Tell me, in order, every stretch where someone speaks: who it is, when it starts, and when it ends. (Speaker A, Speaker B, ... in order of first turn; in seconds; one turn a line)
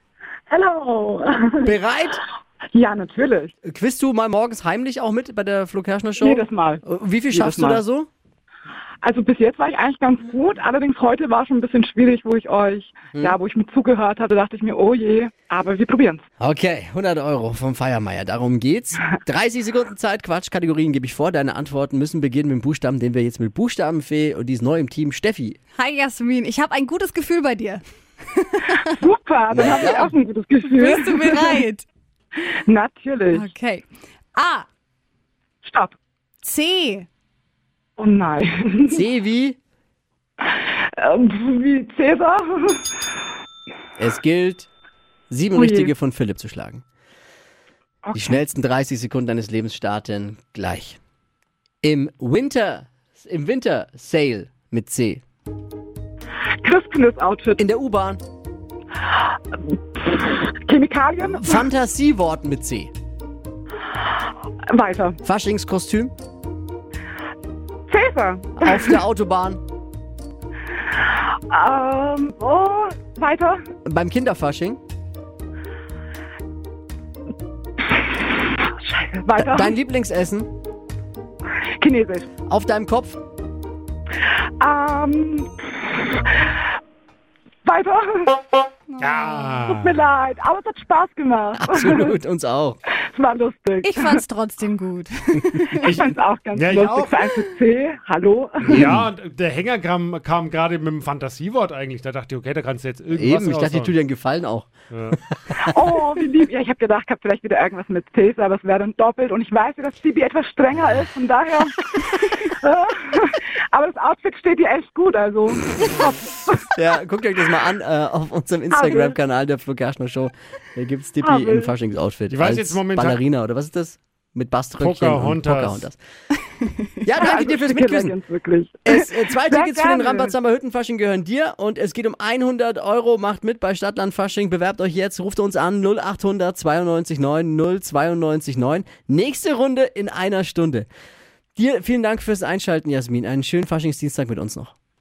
Speaker A: 0.5-1.7
Speaker B: 1.6-2.2
Speaker A: 2.7-3.5
Speaker B: 3.6-8.1
Speaker A: 6.2-7.8
Speaker A: 9.0-16.2
Speaker B: 16.4-25.6
Speaker C: 25.8-28.8
Speaker A: 28.9-31.6
Speaker B: 29.5-30.1
Speaker C: 30.7-31.9
Speaker A: 32.4-33.5
Speaker C: 33.3-34.6
Speaker A: 35.6-36.0
Speaker C: 36.4-37.1
Speaker A: 38.0-39.0
Speaker B: 38.9-39.6
Speaker A: 40.4-42.9
Speaker B: 44.0-44.7
Speaker B: 45.3-46.8
Speaker A: 45.5-45.9
Speaker A: 48.0-48.4
Speaker B: 48.1-51.0
Speaker B: 51.8-55.2
Speaker A: 56.6-57.6
Speaker B: 57.6-58.2
Speaker A: 59.1-61.6
Speaker B: 61.2-62.9
Speaker A: 64.7-65.2
Speaker B: 65.2-66.1
Speaker A: 67.9-69.0
Speaker B: 68.6-69.6
Speaker A: 71.1-73.6
Speaker B: 73.8-74.8
Speaker A: 78.6-79.7
Speaker B: 79.4-80.5
Speaker A: 81.8-82.3
Speaker B: 82.5-83.2
Speaker A: 84.6-86.5
Speaker A: 87.6-88.5
Speaker C: 88.9-89.6
Speaker D: 89.0-89.9
Speaker A: 89.6-92.1
Speaker B: 91.5-92.8
Speaker A: 92.9-94.2
Speaker C: 93.8-96.0
Speaker A: 95.8-98.9
Speaker D: 96.5-97.2
Speaker D: 98.6-103.9
Speaker B: 98.7-99.1
Speaker B: 103.1-104.7
Speaker D: 104.9-105.2
Speaker A: 105.6-116.7
Speaker B: 116.7-126.0
Speaker A: 118.7-119.2
Speaker A: 121.2-121.7
Speaker D: 122.3-123.2
Speaker D: 124.8-125.8
Speaker B: 127.0-128.1
Speaker A: 127.1-130.3
Speaker B: 128.8-140.9
Speaker B: 141.6-144.7